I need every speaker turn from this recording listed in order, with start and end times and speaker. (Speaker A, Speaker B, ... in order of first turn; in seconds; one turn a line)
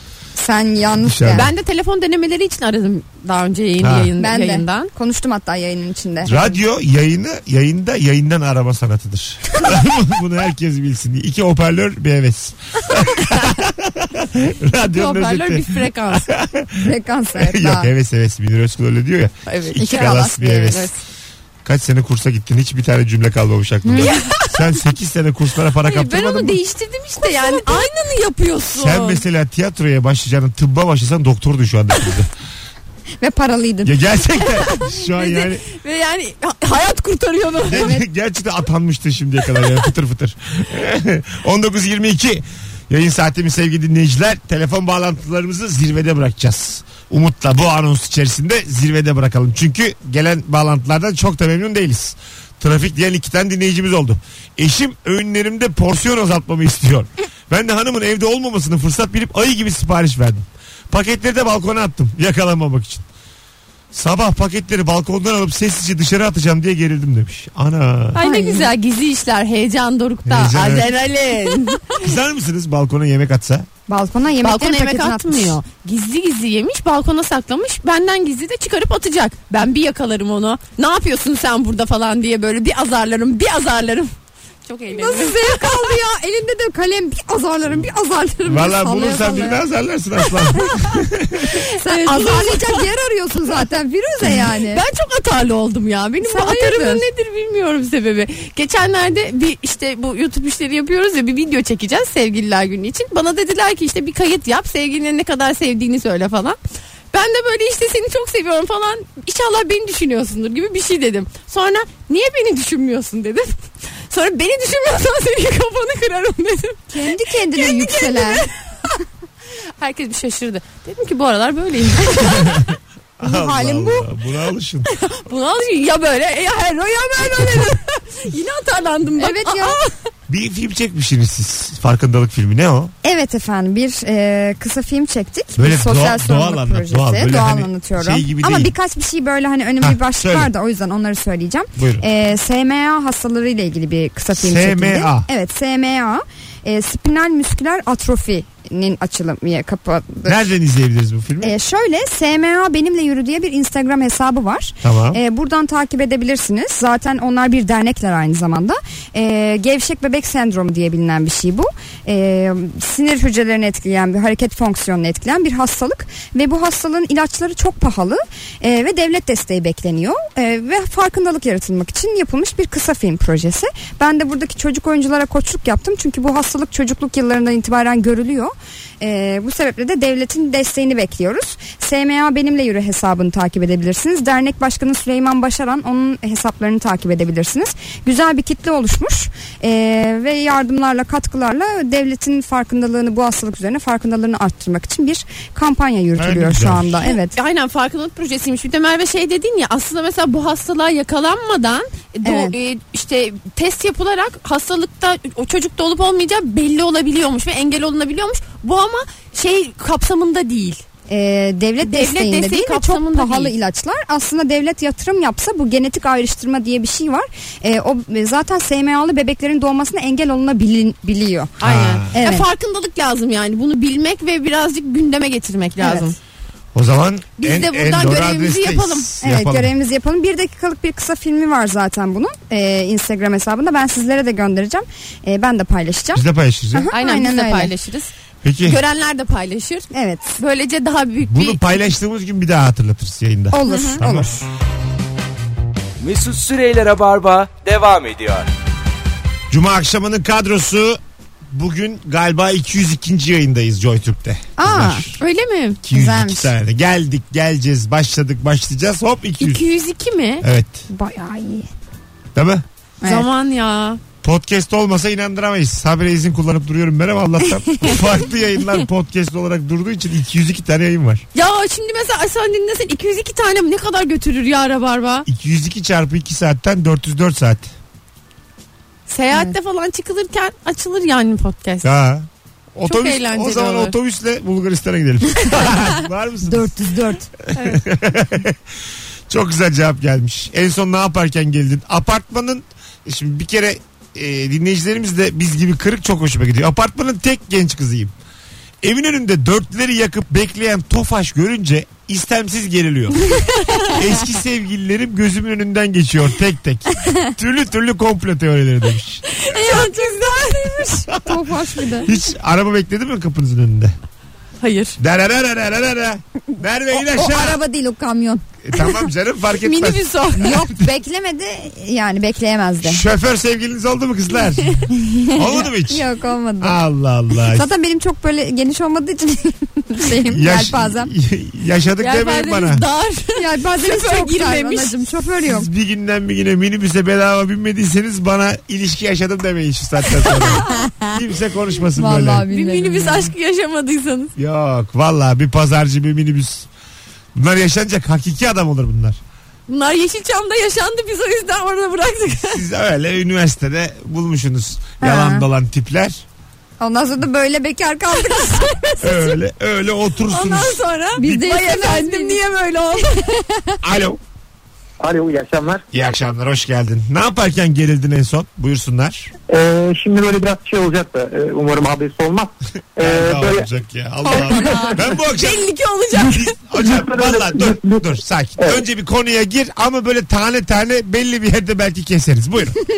Speaker A: 0.4-1.5
Speaker B: 1.0-1.5
Speaker C: 1.3-4.9
Speaker B: 3.8-4.1
Speaker A: 4.2-6.6
Speaker B: 6.2-20.9
Speaker C: 14.9-16.3
Speaker A: 16.8-17.9
Speaker C: 19.5-20.9
Speaker A: 19.7-20.9
Speaker B: 21.6-26.6
Speaker A: 23.9-24.1
Speaker C: 24.0-24.6
Speaker C: 25.8-29.2
Speaker A: 27.2-27.8
Speaker B: 28.7-32.3
Speaker A: 33.2-34.0
Speaker B: 33.8-35.6
Speaker C: 34.8-38.0
Speaker B: 37.7-63.0
Speaker A: 37.7-38.0
Speaker B: 63.9-68.2
Speaker C: 68.2-72.0
Speaker A: 68.2-68.7
Speaker B: 70.2-70.9
Speaker B: 72.0-73.7
Speaker A: 73.9-75.6
Speaker C: 74.4-84.1
Speaker C: 84.7-85.7
Speaker A: 84.9-89.6
Speaker B: 88.4-91.6
Speaker A: 90.6-91.0
Speaker C: 91.5-92.9
Speaker A: 91.8-94.8
Speaker C: 94.7-106.6
Speaker A: 96.2-97.1
Speaker C: 107.1-117.0
Speaker A: 116.9-118.5
Speaker C: 117.5-118.7
Speaker C: 119.8-122.7
Speaker B: 122.4-122.7
Speaker B: 123.2-124.9
Speaker A: 123.2-124.1
Speaker C: 124.9-129.9
Speaker A: 129.2-129.8
Speaker B: 130.3-132.9
Speaker A: 133.0-150.4
Speaker B: 135.6-138.7
Speaker B: 139.8-140.5
Speaker B: 141.8-142.1
Speaker B: 144.3-145.3
Speaker B: 150.2-151.6
Speaker A: 151.4-197.3
Speaker B: 154.8-155.2
Speaker B: 196.2-197.0
Speaker C: 197.0-210.8
Speaker A: 202.2-202.5
Speaker A: 211.1-221.6
Speaker C: 211.8-213.5
Speaker C: 221.6-226.2
Speaker B: 221.6-222.1
Speaker A: 222.1-222.5
Speaker A: 225.8-226.1
Speaker B: 226.8-229.7
Speaker C: 227.4-229.1
Speaker A: 229.2-237.7
Speaker B: 236.1-236.9
Speaker C: 236.9-238.1
Speaker B: 238.4-238.8
Speaker C: 238.6-241.7
Speaker A: 239.9-240.4
Speaker B: 241.3-244.3
Speaker A: 243.5-244.4
Speaker C: 243.7-244.0
Speaker D: 246.0-248.5
Speaker B: 249.5-251.0
Speaker B: 251.5-255.2
Speaker A: 254.6-255.1
Speaker C: 255.2-255.8
Speaker B: 255.8-259.6
Speaker A: 255.9-256.5
Speaker C: 259.4-260.4
Speaker B: 260.4-260.9
Speaker A: 260.9-261.7
Speaker B: 262.4-262.6
Speaker C: 263.0-264.0
Speaker B: 264.2-271.2
Speaker C: 271.4-275.3
Speaker B: 275.3-277.7
Speaker C: 279.1-281.9
Speaker B: 281.8-286.7
Speaker C: 282.8-283.9
Speaker A: 286.5-287.3
Speaker B: 287.6-288.6
Speaker B: 289.3-298.1
Speaker B: 298.8-309.2
Speaker C: 303.6-303.9
Speaker C: 309.3-310.8
Speaker A: 309.5-312.1
Speaker B: 311.1-311.5
Speaker B: 312.0-313.9
Speaker C: 314.6-315.0
Speaker B: 315.0-317.6
Speaker A: 316.9-319.0
Speaker B: 318.6-320.1
Speaker C: 319.6-320.6
Speaker A: 320.4-323.0
Speaker B: 322.8-326.1
Speaker A: 324.9-326.8
Speaker B: 326.6-327.7
Speaker A: 327.5-331.1
Speaker B: 330.3-332.8
Speaker C: 332.0-335.0
Speaker A: 333.4-335.7
Speaker B: 335.4-342.5
Speaker A: 341.9-343.3
Speaker C: 342.5-344.3
Speaker B: 344.4-346.7
Speaker B: 347.4-349.2
Speaker C: 349.7-352.6
Speaker B: 352.3-356.2
Speaker A: 355.0-355.5
Speaker A: 356.8-359.2
Speaker B: 359.0-360.8
Speaker C: 360.3-363.4
Speaker A: 361.2-362.4
Speaker B: 363.8-364.2
Speaker E: 365.0-365.9
Speaker B: 365.9-369.3
Speaker E: 369.5-373.7
Speaker B: 373.0-382.8
Speaker C: 374.3-376.5
Speaker E: 376.8-378.8